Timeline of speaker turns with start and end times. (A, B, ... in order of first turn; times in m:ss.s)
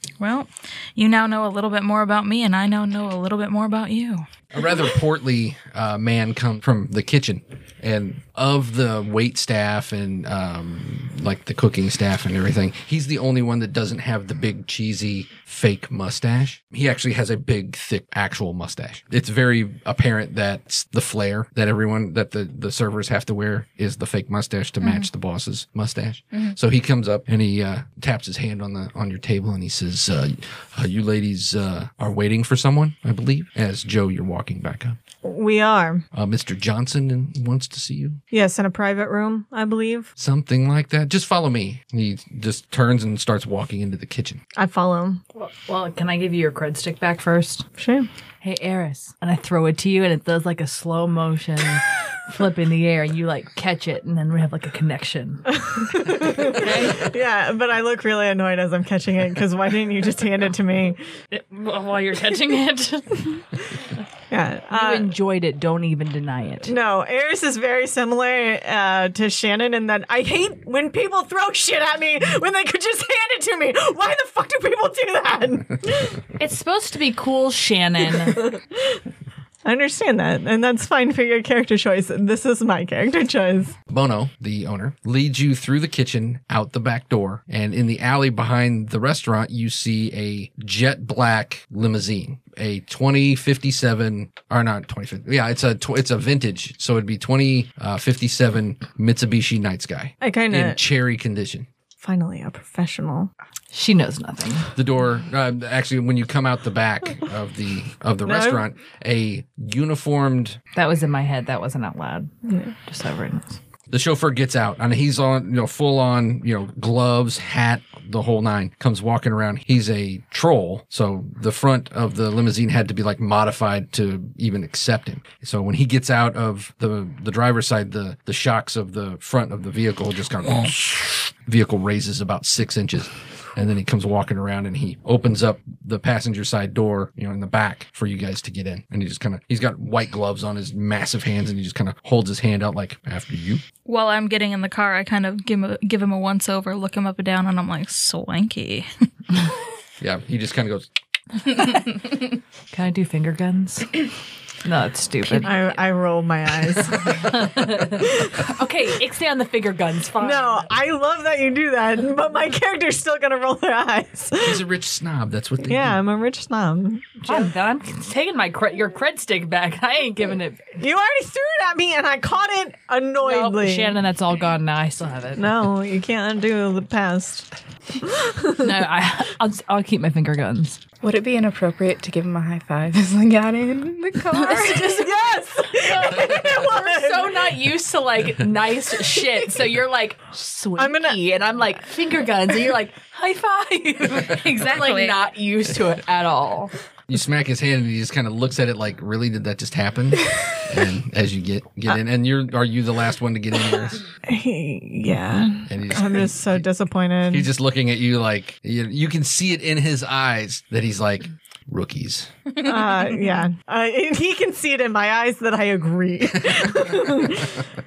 0:00.2-0:04.3 A
0:04.5-0:35.0 B
0:35.2-0:36.0 C
0:36.1-0:38.2 B
0:38.3-0:40.1 C
0:40.2-0:44.4 B
0:44.6-0:45.2 C
0:45.3-0:47.7 D
0:47.8-0:48.1 C
0:48.4-0:57.1 D
0:55.5-1:01.0 C
1:01.3-1:03.4 D
1:04.3-1:05.2 C
1:04.7-1:06.7 D
1:06.6-1:16.2 C
1:16.4-1:18.5 D
1:18.2-1:18.6 C
1:19.6-1:23.8 C
1:23.9-1:41.7 B
1:40.2-1:40.8 C
1:42.0-1:43.3 C
1:43.7-1:44.7 D
1:44.8-1:50.6 B
1:50.7-1:53.6 D
1:52.5-1:52.7 C
1:53.9-2:23.6 B
2:23.9-2:28.9 A
2:30.0-2:30.9 B
2:31.4-2:34.1 D
2:34.6-2:35.7 D
2:35.4-2:38.6 C
2:36.9-2:40.7 D
2:40.2-2:44.6 C
2:44.4-2:46.0 B
2:45.6-2:47.5 C
2:47.2-2:50.8 D
2:50.8-2:54.0 C
2:53.2-2:55.5 D
2:55.4-2:57.5 C
2:58.0-2:58.7 C
2:58.6-3:00.8 D
3:01.0-3:05.1 E
3:04.3-3:05.2 D
3:04.8-3:07.6 C
3:05.7-3:16.7 D
3:10.8-3:11.2 C
3:14.7-3:15.2 A
3:17.1-3:24.0 B
3:24.3-3:27.5 C
3:25.7-3:26.7 B
3:27.3-3:32.3 B
3:32.6-3:37.6 C
3:32.8-3:33.1 A